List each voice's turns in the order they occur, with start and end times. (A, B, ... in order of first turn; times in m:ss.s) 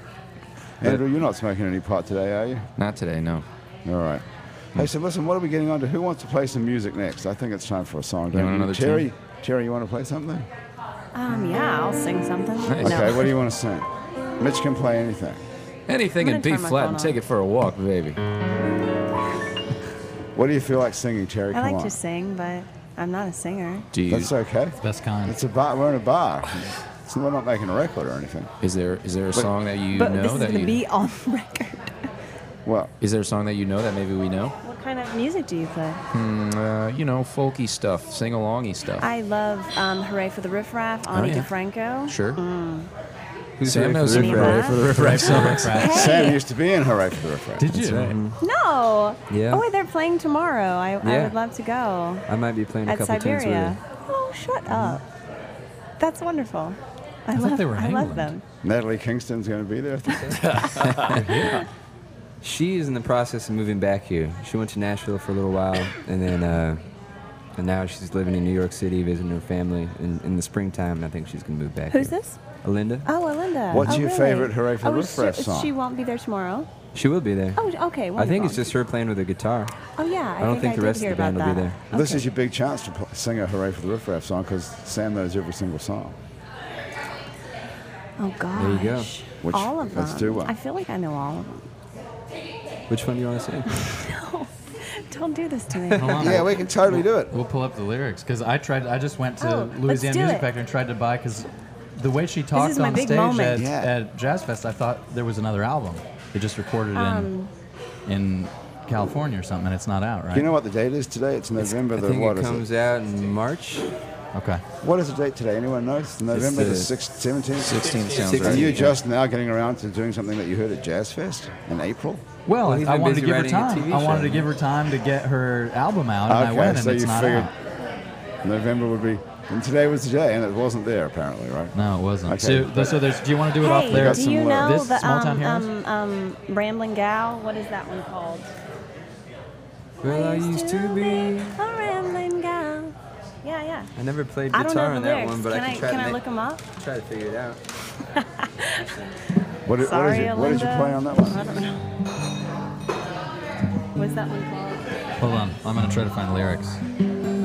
0:00.8-0:02.7 A
0:02.8-0:03.4 B
0:03.8-0:10.5 A
0:08.3-0:09.1 B
0:11.1-0:13.3 C
0:12.6-0:13.1 B
0:12.8-0:13.9 A
0:14.4-0:15.4 A
0:15.9-0:18.2 B
0:16.2-0:17.2 C
0:20.4-0:22.0 A
0:21.5-0:23.9 C
0:23.9-0:24.3 B
0:24.1-0:28.5 A
0:24.8-0:25.4 D
0:28.6-0:30.8 B
0:29.9-0:32.0 C
0:32.7-0:32.9 A
0:33.0-0:34.6 B
0:34.6-0:36.0 C
0:36.1-0:39.1 B
0:39.0-0:42.9 C
0:41.1-0:41.5 B
0:42.1-0:42.4 B
0:43.6-0:45.1 E
0:43.6-0:45.8 B
0:44.0-0:46.4 C
0:44.8-0:46.2 D
0:45.8-0:47.8 A
0:47.6-0:48.2 D
0:47.8-0:48.2 B
0:48.1-0:48.4 E
0:48.4-0:52.2 C
0:49.3-0:49.6 E
0:51.0-0:51.4 E
0:52.3-0:53.8 E
0:52.9-0:55.0 C
0:56.0-0:58.4 C
0:57.4-0:58.3 D
0:58.6-1:01.0 A
1:00.3-1:01.4 E
1:01.0-1:01.6 D
1:02.4-1:06.8 E
1:07.6-1:13.1 E
1:11.9-1:12.4 C
1:13.1-1:16.7 C
1:13.7-1:15.7 A
1:13.7-1:14.0 E
1:16.9-1:19.7 E
1:17.6-1:18.8 C
1:20.0-1:22.3 C
1:20.4-1:21.8 E
1:21.9-1:26.2 A
1:28.2-1:31.6 C
1:28.6-1:29.1 E
1:29.4-1:30.5 A
1:32.9-1:33.8 E
1:33.9-1:36.5 C
1:35.9-1:36.3 E
1:36.0-1:47.3 D
1:36.2-1:37.3 A
1:39.4-1:40.5 C
1:42.5-1:43.6 C
1:43.5-1:43.9 A
1:46.9-1:47.5 C
1:48.1-1:50.5 D
1:50.3-1:52.7 A
1:51.6-1:53.9 E
1:54.3-1:54.6 D
1:54.8-2:02.2 A
1:56.3-1:56.9 E
1:57.6-1:58.8 B
1:58.1-1:58.9 E
2:02.5-2:07.5 D
2:02.6-2:04.4 E
2:06.3-2:07.5 A
2:08.4-2:11.7 A
2:11.8-2:15.7 D
2:12.3-2:13.2 A
2:13.6-2:18.5 C
2:13.7-2:14.9 A
2:20.0-2:21.6 E
2:20.0-2:23.9 C
2:24.0-2:26.2 E
2:24.5-2:26.7 C
2:26.7-2:27.6 E
2:28.2-2:28.9 C
2:29.7-2:31.4 A
2:29.8-2:31.8 C
2:34.0-2:34.9 C
2:35.2-2:36.8 D